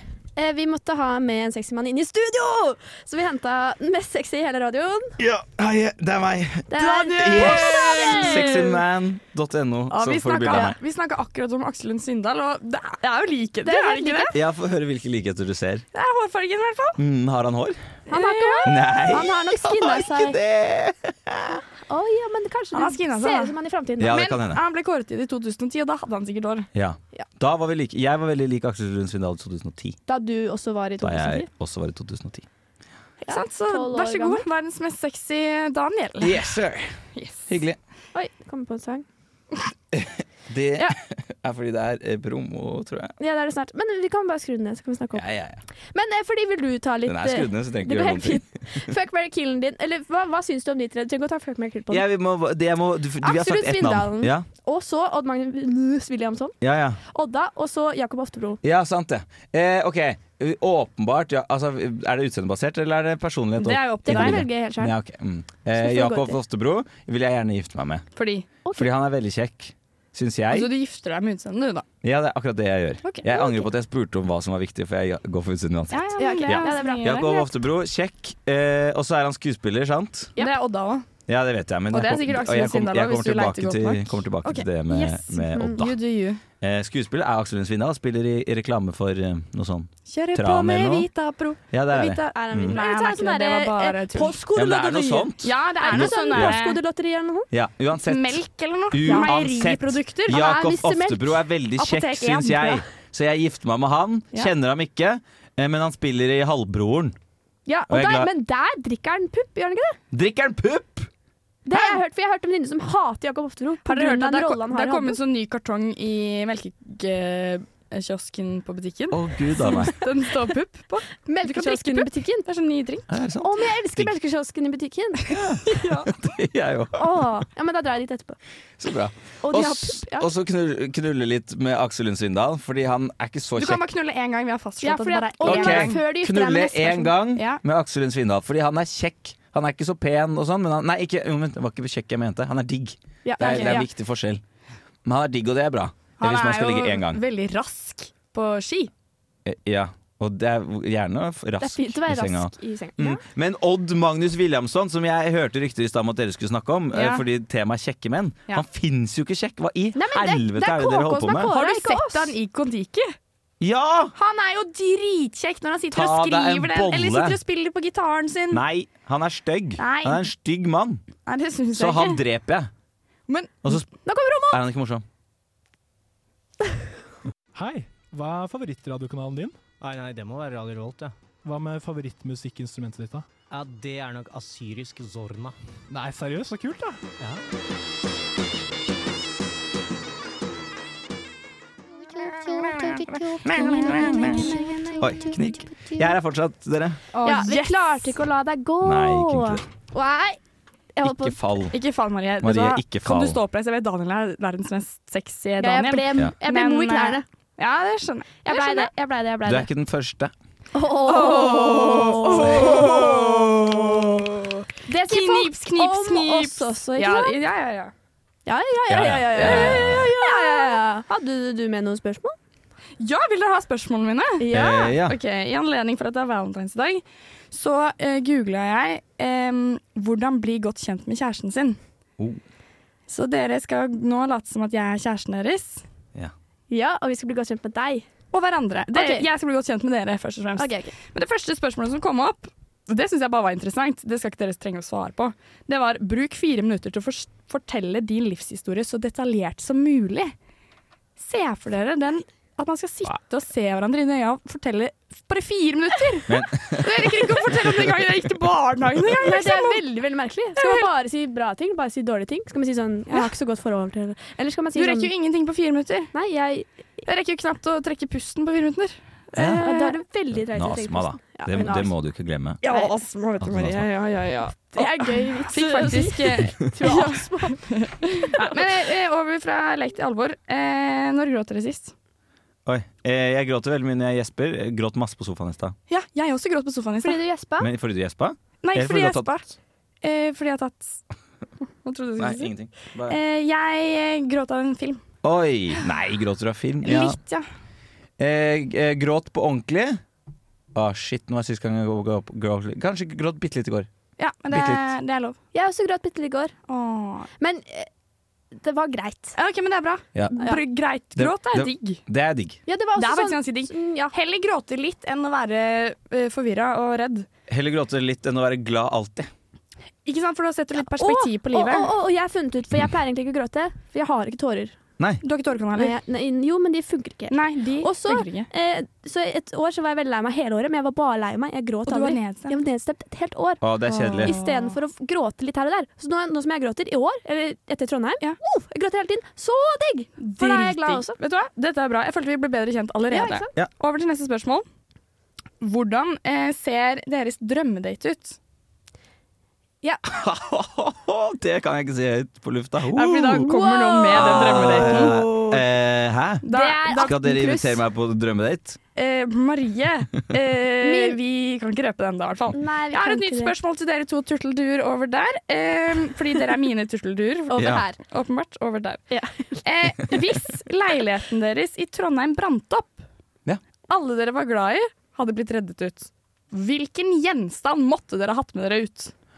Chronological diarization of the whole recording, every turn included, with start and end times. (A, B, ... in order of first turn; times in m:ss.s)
0:00.4-0:05.2 A
0:05.2-0:10.8 B
0:06.7-0:08.7 A
0:06.8-0:08.8 C
0:09.9-0:14.4 C
0:13.6-0:14.4 A
0:14.3-0:15.8 B
0:15.9-0:17.0 C
0:17.0-0:17.8 B
0:18.1-0:19.1 C
0:18.1-0:20.4 A
0:18.6-0:21.6 B
0:21.9-0:24.2 A
0:22.7-0:26.7 C
0:24.0-0:24.6 B
0:26.7-0:30.0 B
0:30.1-0:31.5 A
0:31.0-0:32.4 B
0:33.2-0:34.4 A
0:33.3-0:36.5 C
0:36.2-0:37.0 B
0:37.1-0:37.5 C
0:37.5-0:37.8 B
0:38.1-0:39.0 A
0:39.9-0:43.1 B
0:43.2-0:45.2 A
0:45.1-0:45.6 B
0:45.9-0:52.0 A
0:47.0-0:48.8 B
0:51.9-0:54.5 B
0:53.2-0:56.5 A
0:56.6-0:57.0 B
0:57.1-0:58.6 A
0:58.6-1:08.0 B
1:03.6-1:04.5 C
1:03.7-1:04.9 A
1:05.7-1:06.4 A
1:08.2-1:08.5 C
1:08.6-1:08.9 A
1:08.7-1:10.7 B
1:10.5-1:11.8 C
1:12.0-1:20.3 B
1:13.0-1:13.3 C
1:13.3-1:13.6 A
1:15.9-1:17.4 C
1:16.2-1:17.4 A
1:20.4-1:21.0 C
1:21.3-1:26.0 B
1:21.9-1:26.4 C
1:25.5-1:25.8 A
1:26.6-1:31.1 B
1:30.1-1:34.4 C
1:31.7-1:32.8 B
1:32.0-1:37.5 A
1:34.5-1:36.6 B
1:35.4-1:36.8 C
1:37.5-1:47.2 B
1:38.0-1:40.4 C
1:39.0-1:39.4 A
1:40.3-1:41.4 A
1:41.8-1:42.8 C
1:47.7-1:50.0 A
1:47.9-1:48.3 B
1:50.1-1:51.1 B
1:51.6-1:55.2 A
1:51.7-1:52.0 C
1:53.8-2:03.1 C
1:59.1-2:00.0 B
2:01.2-2:02.5 A
2:03.1-2:04.1 B
2:03.4-2:05.8 A
2:05.3-2:07.2 B
2:05.7-2:06.1 C
2:06.9-2:08.4 A
2:08.8-2:13.8 B
2:09.4-2:10.3 A
2:13.6-2:16.0 C
2:14.8-2:17.2 A
2:15.4-2:24.4 B
2:17.3-2:17.6 C
2:23.2-2:23.9 A
2:23.4-2:23.8 C
2:25.0-2:27.2 B
2:26.2-2:28.9 C
2:29.4-2:41.5 B
2:31.6-2:33.2 A
2:36.9-2:37.2 C
2:39.9-2:42.4 A
2:41.5-2:43.1 C
2:43.6-2:44.1 B
2:44.2-2:48.6 C
2:45.9-2:47.4 B
2:48.5-2:51.0 B
2:49.8-2:50.2 C
2:51.2-2:52.2 C
2:51.7-2:52.7 B
2:53.3-2:53.8 C
2:54.0-2:54.6 A
2:54.5-2:55.0 B
2:57.5-2:59.6 D
2:59.8-3:01.1 E
3:01.4-3:03.2 D
3:03.5-3:05.6 E
3:05.9-3:07.0 D
3:07.2-3:07.4 E
3:12.2-3:15.3 C
3:12.2-3:16.0 A
3:13.4-3:17.0 B
3:17.1-3:18.2 C
3:17.2-3:20.4 A
3:18.8-3:19.6 B
3:21.0-3:21.4 A
3:21.0-3:21.8 B
3:21.7-3:28.9 C
3:22.4-3:23.4 B
3:25.6-3:27.2 A
3:28.4-3:29.7 A
3:29.4-3:30.3 B
3:30.7-3:33.7 A
3:31.1-3:37.9 C
3:34.8-3:37.4 A
3:38.4-3:42.4 A
3:38.9-3:40.1 B
3:39.3-3:40.8 C
3:43.0-3:44.5 C
3:44.4-3:45.0 A
3:44.5-3:45.2 B
3:45.0-3:51.8 C
3:53.1-3:55.8 C
3:56.7-3:58.0 A
3:58.3-4:10.3 C
3:58.9-3:59.3 A
4:00.6-4:00.9 A
4:11.2-4:19.9 C
4:16.3-4:17.7 B
4:19.2-4:25.1 A
4:20.6-4:20.9 C
4:24.7-4:26.1 C
4:26.1-4:26.7 A
4:27.1-4:30.0 C
4:29.3-4:29.7 B
4:29.6-4:31.9 A
4:30.3-4:32.6 B
4:32.6-4:41.9 C
4:32.6-4:32.9 A
4:33.4-4:33.9 B
4:34.7-4:38.6 A
4:42.6-4:45.8 B
4:45.9-4:47.2 C
4:47.0-4:47.7 A
4:47.6-4:49.4 B
4:48.6-4:49.5 C
4:50.0-4:51.0 C
4:51.8-4:52.5 C
4:52.2-4:53.2 B
4:53.1-4:55.0 C
4:55.2-4:57.2 B
4:56.8-4:57.4 C
4:58.2-5:00.0 B
5:00.7-5:03.9 B
5:04.2-5:05.4 C
5:04.5-5:04.9 B
5:05.5-5:06.5 A
5:06.7-5:07.3 C
5:07.4-5:07.9 A
5:08.5-5:09.4 A
5:09.4-5:12.0 C
5:11.1-5:12.6 B
5:12.7-5:14.1 A
5:12.9-5:17.3 C
5:17.5-5:19.3 B
5:20.0-5:21.9 C
5:20.9-5:24.8 A
5:25.2-5:26.0 C
5:25.7-5:41.2 A
5:27.3-5:28.5 C
5:31.9-5:32.6 C
5:33.6-5:34.3 B
5:33.9-5:34.7 C
5:40.2-5:44.6 C
5:43.1-5:43.5 A
5:45.6-5:48.4 C
5:50.0-5:53.5 B
5:52.9-5:55.2 C
5:53.4-5:55.6 A
5:54.1-5:58.8 B
5:56.4-5:57.2 C
5:56.5-5:57.8 A
5:58.9-6:09.0 C
6:00.8-6:01.2 A
6:02.5-6:03.5 A
6:07.5-6:08.0 A
6:07.5-6:07.8 B
6:09.1-6:09.6 A
6:09.6-6:13.0 C
6:13.9-6:19.1 C